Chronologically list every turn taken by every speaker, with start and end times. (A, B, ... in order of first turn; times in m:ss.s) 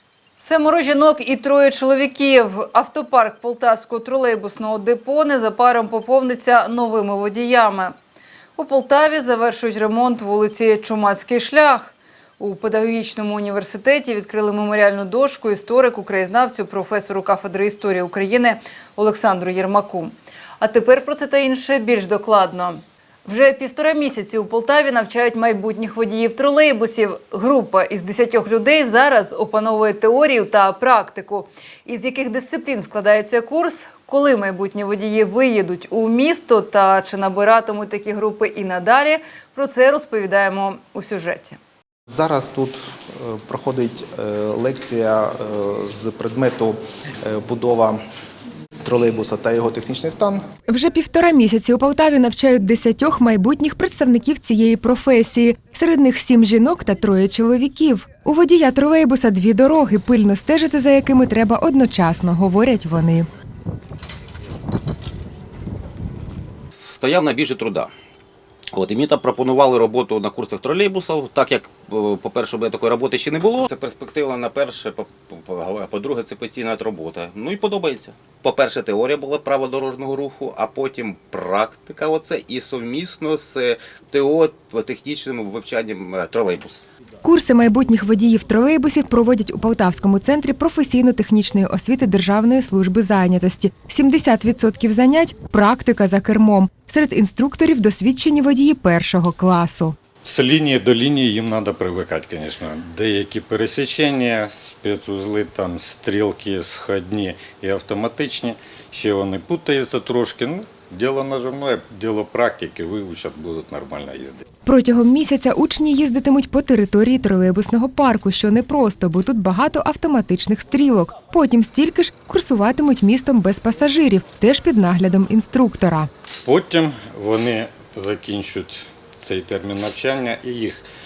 0:00.4-0:07.9 A
0:08.6-0:41.6 A
0:42.1-0:48.0 B
0:48.8-0:50.4 B
0:50.7-1:03.3 C
1:07.0-1:07.8 D
1:08.8-1:26.7 D
1:27.2-1:40.0 C
1:40.2-1:54.4 E
1:54.6-2:06.1 C
2:06.4-2:10.8 E